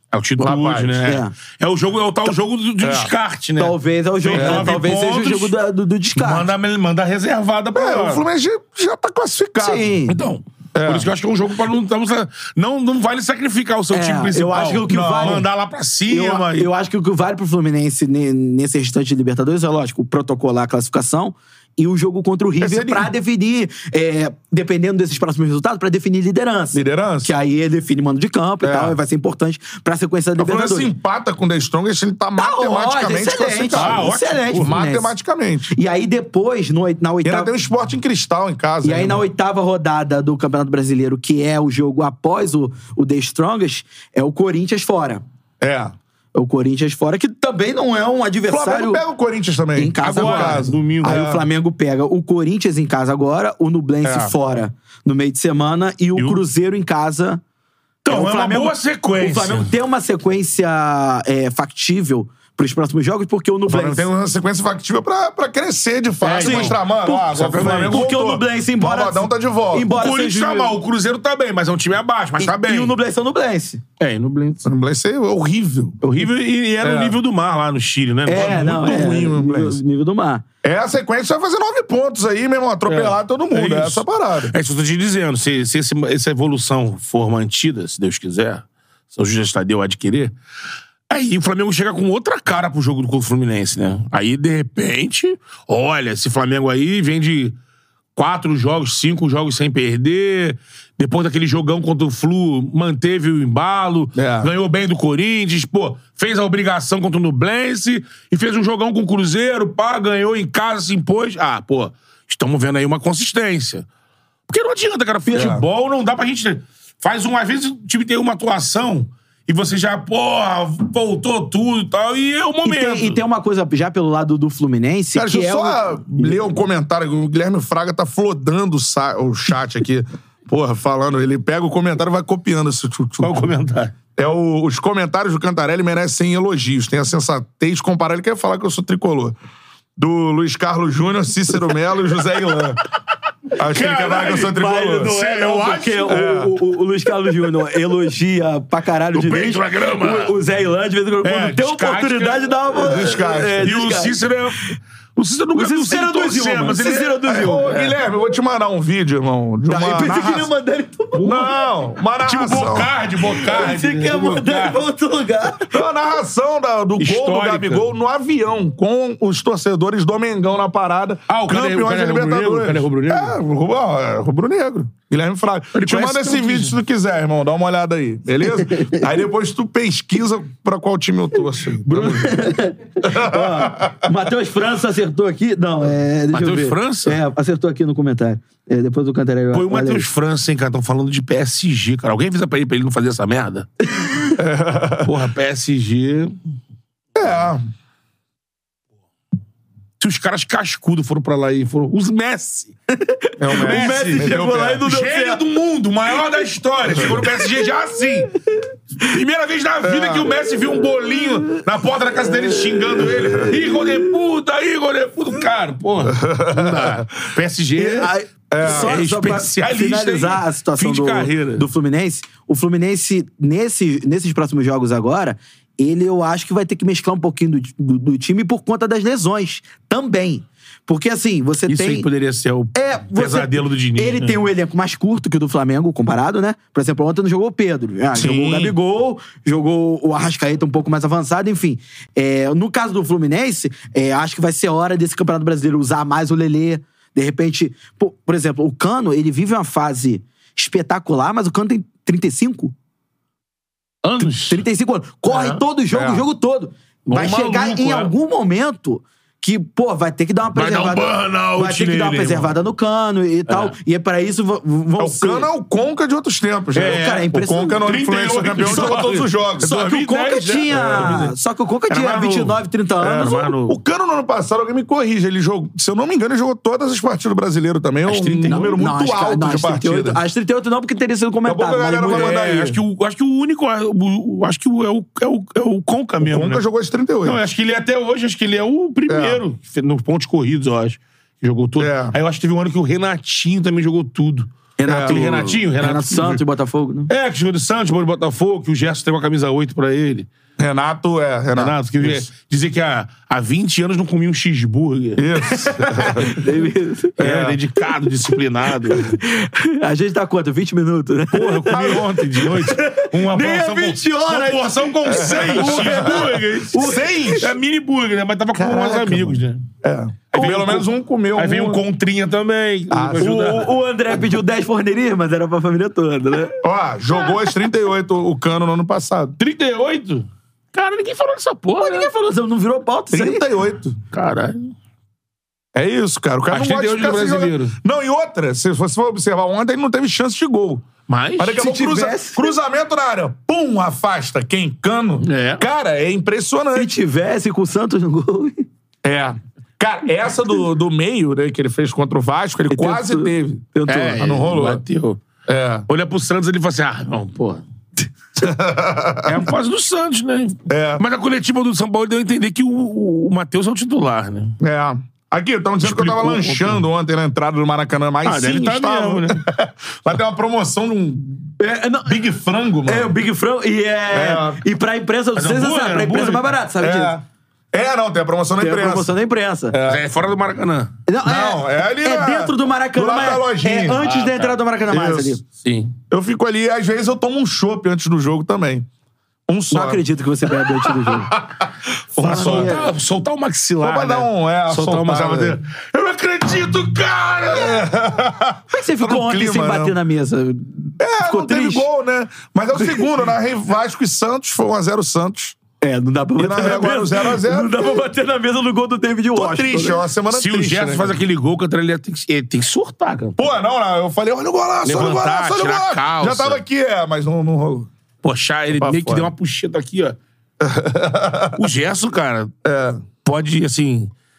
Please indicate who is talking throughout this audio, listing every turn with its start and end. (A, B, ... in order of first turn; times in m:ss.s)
0:00.1-0:05.5 A
0:00.4-0:01.0 B
0:01.0-0:01.3 C
0:02.8-0:03.1 B
0:03.6-0:06.5 C
0:04.3-0:04.7 B
0:06.2-0:08.2 A
0:07.8-0:10.0 B
0:09.6-0:10.2 C
0:10.1-0:16.7 A
0:10.7-0:11.1 B
0:13.9-0:15.5 C
0:14.9-0:15.4 B
0:16.1-0:30.9 C
0:22.6-0:23.1 B
0:26.7-0:27.3 B
0:28.6-0:29.0 B
0:30.4-0:35.8 B
0:32.4-0:35.1 C
0:33.8-0:34.7 A
0:35.7-0:37.5 C
0:37.2-0:39.2 B
0:38.8-0:45.2 C
0:45.6-0:46.0 B
0:46.4-0:49.0 C
0:48.5-0:51.5 B
0:49.8-0:57.4 C
0:50.0-0:51.2 A
0:56.2-0:56.4 A
0:58.0-0:59.7 A
0:58.1-1:04.1 C
1:03.7-1:09.9 B
1:06.2-1:10.8 C
1:06.2-1:06.8 A
1:07.5-1:08.0 A
1:09.9-1:13.0 A
1:12.4-1:13.8 C
1:14.0-1:14.6 A
1:14.6-1:16.0 B
1:16.0-1:19.1 A
1:16.8-1:17.2 B
1:18.2-1:20.4 C
1:18.3-1:19.8 B
1:20.6-1:24.5 B
1:22.9-1:30.3 A
1:31.1-1:37.6 A
1:38.2-1:53.9 A
1:44.2-1:44.5 B
1:54.5-2:03.2 A
1:55.3-1:55.6 B
2:02.6-2:06.4 C
2:05.2-2:13.5 B
2:13.2-2:13.9 A
2:14.2-2:19.4 B
2:20.0-2:22.8 B
2:23.6-2:25.1 B
2:23.7-2:26.2 A
2:24.3-2:34.2 C
2:26.1-2:26.6 B
2:29.1-2:30.4 A
2:31.2-2:32.6 A
2:32.8-2:33.7 B
2:33.6-2:37.3 A
2:35.6-2:38.0 C
2:37.2-2:40.5 B
2:39.7-2:41.5 C
2:41.2-2:41.5 A
2:41.2-2:42.9 B
2:42.2-2:44.8 A
2:43.2-2:45.8 C
2:45.7-3:02.4 B
2:47.0-2:47.9 A
2:51.3-2:53.4 A
2:55.7-2:56.8 A
2:58.6-2:59.1 C
3:01.9-3:02.4 A
3:01.9-3:10.1 C
3:03.0-3:04.0 B
3:06.3-3:07.2 A
3:09.5-3:13.7 A
3:14.4-3:15.1 B
3:15.0-3:16.4 A
3:17.2-3:17.6 B
3:20.0-3:22.7 A
3:23.0-3:25.4 C
3:23.4-3:24.8 B
3:23.5-3:28.3 A
3:27.0-3:27.7 C
3:28.5-3:29.1 C
3:29.0-3:41.7 A
3:29.8-3:30.3 B
3:31.2-3:31.6 C
3:32.2-3:34.1 C
3:33.1-3:33.5 B
3:36.1-3:37.3 B
3:37.8-3:52.1 C
3:38.5-3:39.0 B
3:51.7-3:54.4 A
3:52.7-4:12.8 C
3:58.2-3:58.7 A
4:14.0-4:14.6 A
4:14.2-4:25.5 C
4:15.3-4:15.6 A
4:15.9-4:16.2 B
4:17.1-4:18.1 A
4:20.6-4:22.6 A
4:25.0-4:29.8 B
4:26.8-4:31.3 A
4:26.8-4:27.8 C
4:28.6-4:33.4 C
4:30.7-4:31.3 B
4:31.9-4:32.6 A
4:33.0-4:40.2 B
4:33.1-4:33.8 A
4:38.1-4:38.8 A
4:38.5-4:42.4 C
4:41.4-4:42.8 B
4:42.1-4:46.6 A
4:46.2-4:47.4 B
4:47.2-4:56.4 A
4:49.1-4:49.4 B
4:51.8-4:52.2 B
4:54.8-4:57.1 C
4:54.9-4:55.3 B
4:57.1-5:00.3 A
5:00.6-5:02.3 B
5:01.6-5:05.6 A
5:05.2-5:06.4 B
5:05.7-5:07.2 C
5:07.2-5:09.2 A
5:07.2-5:07.6 B
5:08.3-5:17.5 C
5:11.3-5:19.6 A
5:11.7-5:12.1 B
5:15.0-5:17.5 B
5:18.6-5:21.8 B
5:20.3-5:23.7 A
5:20.4-5:20.7 C
5:22.9-5:23.7 B
5:23.2-5:26.6 C
5:26.6-5:29.4 B
5:27.2-5:27.5 C
5:29.4-5:32.1 A
5:31.8-5:33.4 C
5:33.1-5:34.0 B
5:34.1-5:34.7 A
5:35.8-5:40.9 B
5:36.5-5:37.8 A
5:41.1-5:41.6 A
5:41.4-5:46.9 B
5:41.6-5:42.5 C
5:45.2-5:45.6 A
5:46.8-5:48.6 C
5:49.0-5:54.8 B
5:52.7-5:54.3 C
5:53.9-5:55.2 A
5:55.5-5:55.9 B
5:55.9-5:57.6 A
5:58.4-5:59.4 B
5:59.2-6:04.6 A
6:00.7-6:01.0 B
6:04.6-6:11.5 B
6:05.8-6:06.8 A
6:08.2-6:09.4 A
6:11.6-6:12.2 C
6:12.1-6:13.1 B
6:12.8-6:17.2 C
6:14.1-6:14.6 B
6:15.4-6:16.5 A
6:16.8-6:19.1 B
6:18.6-6:19.8 C
6:19.7-6:20.0 B
6:19.9-6:20.9 A
6:21.1-6:25.4 C
6:21.2-6:24.0 B
6:24.0-6:24.6 A
6:24.9-6:25.4 B
6:25.6-6:25.9 A
6:26.1-6:28.9 B
6:29.5-6:30.0 B
6:29.7-6:31.3 C
6:30.8-6:32.8 B
6:32.2-6:32.9 C
6:32.2-6:37.9 A
6:33.8-6:35.6 B
6:37.5-6:40.0 B
6:38.7-6:41.9 C
6:41.0-6:45.6 B
6:42.7-6:43.1 C
6:45.8-6:50.0 C
6:46.4-6:48.1 B
6:49.4-6:51.2 B
6:50.3-6:53.5 A
6:53.4-6:57.9 B
6:54.8-6:56.6 A
6:58.2-7:00.2 A
6:58.8-6:59.3 B
7:00.6-7:01.6 B
7:01.6-7:02.5 A
7:02.6-7:03.0 B
7:03.2-7:04.1 A